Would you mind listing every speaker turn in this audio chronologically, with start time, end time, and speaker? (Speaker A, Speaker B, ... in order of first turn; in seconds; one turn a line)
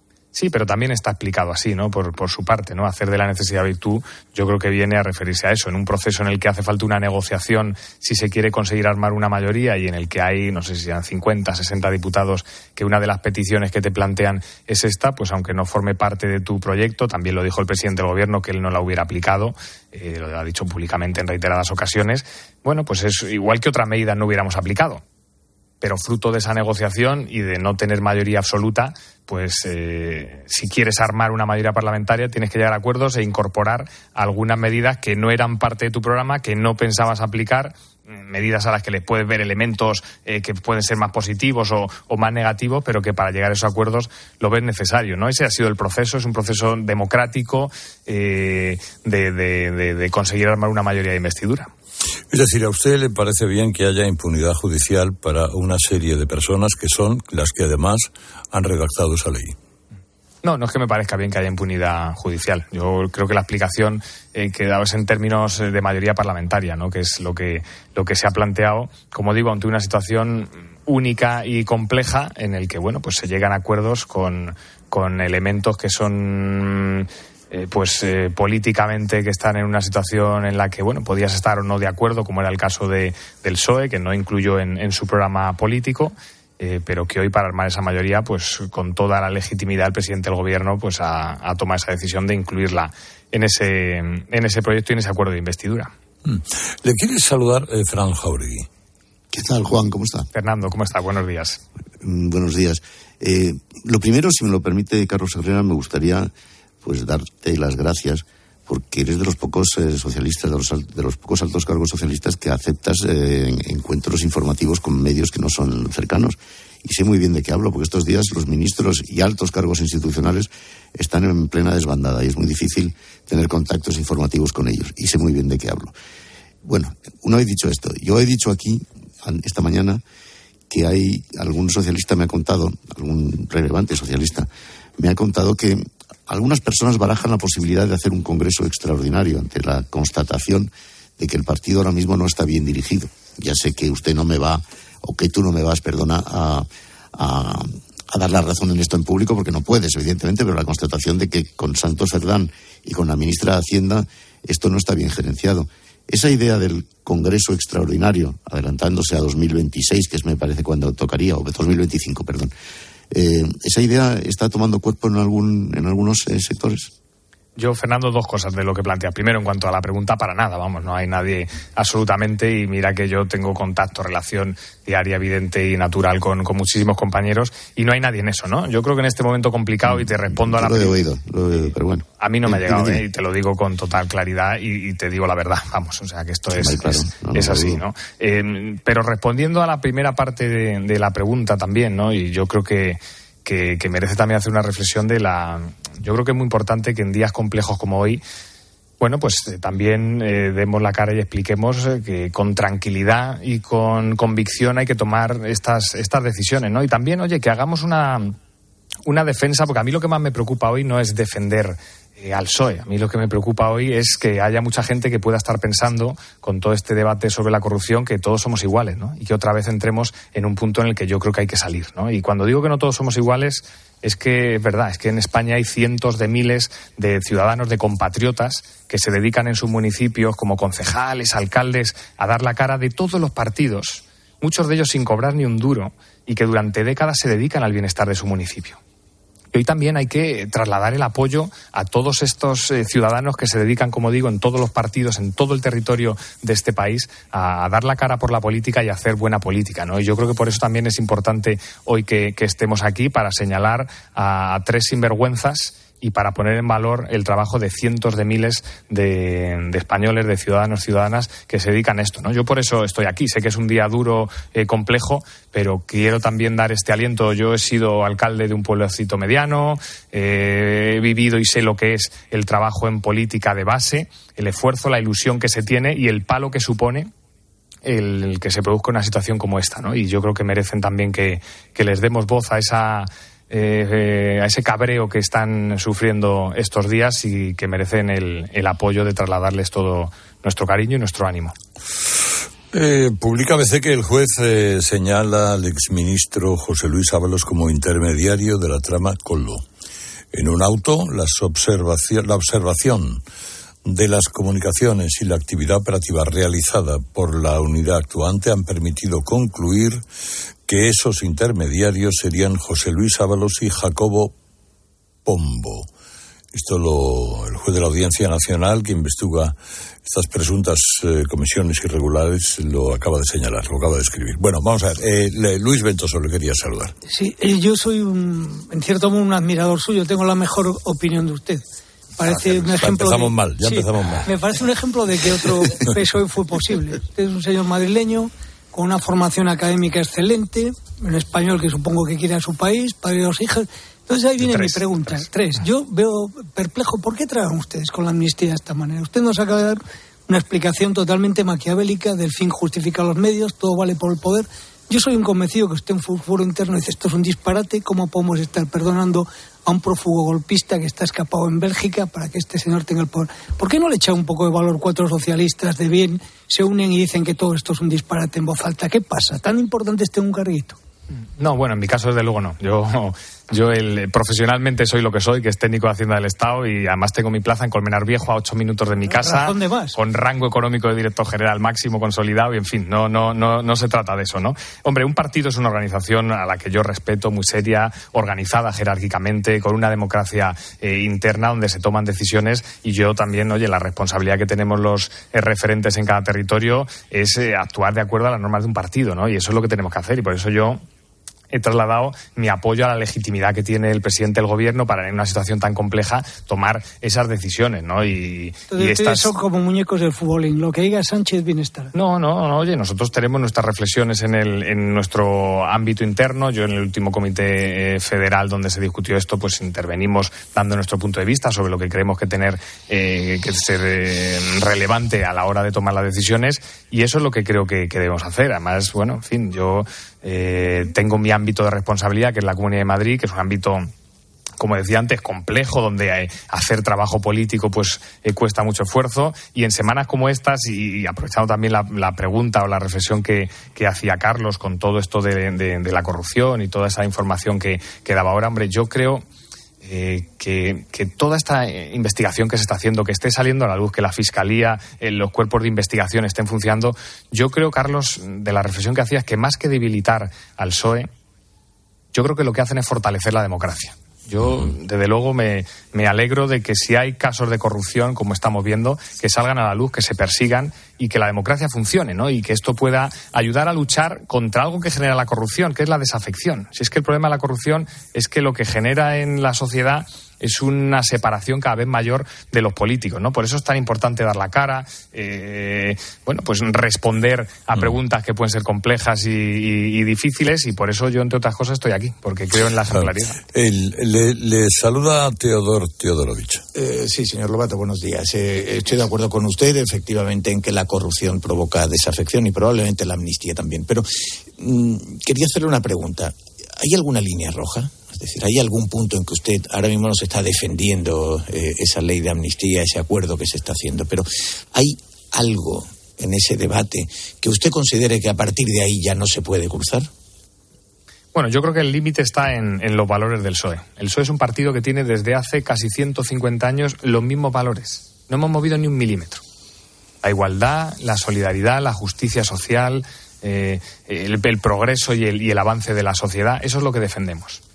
Speaker A: 0.3-25.0
Speaker A: 25.8-51.7
Speaker B: 52.3-59.5
Speaker A: 60.4-95.9
Speaker B: 96.2-98.7
Speaker C: 99.3-100.3
Speaker A: 100.3-101.6
Speaker C: 102.0-106.3
Speaker C: 106.8-126.0
Speaker C: 126.6-130.0
Speaker C: 130.7-162.5
Speaker C: 163.1-166.9
Speaker A: 167.6-181.0
Speaker C: 179.9-183.0
Speaker A: 182.2-198.2
Speaker C: 186.5-187.8
Speaker A: 199.0-208.3
Speaker A: 209.1-238.8
Speaker A: 239.5-277.1
Speaker A: 277.8-291.6
Speaker B: 292.7-299.6
Speaker B: 300.3-303.2
Speaker B: 303.9-310.0
Speaker B: 310.7-314.3
Speaker B: 315.2-315.9
Speaker B: 316.5-326.9
Speaker D: 327.1-331.6
Speaker D: 332.2-370.8
Speaker B: 332.3-334.3
Speaker A: 344.4-345.2
Speaker A: 371.4-400.8
Speaker D: 379.1-380.0
Speaker A: 401.5-409.3
Speaker D: 408.7-411.9
Speaker A: 411.9-433.9
Speaker A: 434.6-449.2
Speaker A: 449.8-461.1
Speaker A: 462.1-493.4
Speaker B: 492.9-496.6
Speaker E: 496.8-504.1
Speaker E: 504.6-520.1
Speaker A: 521.3-529.4
Speaker A: 530.2-537.6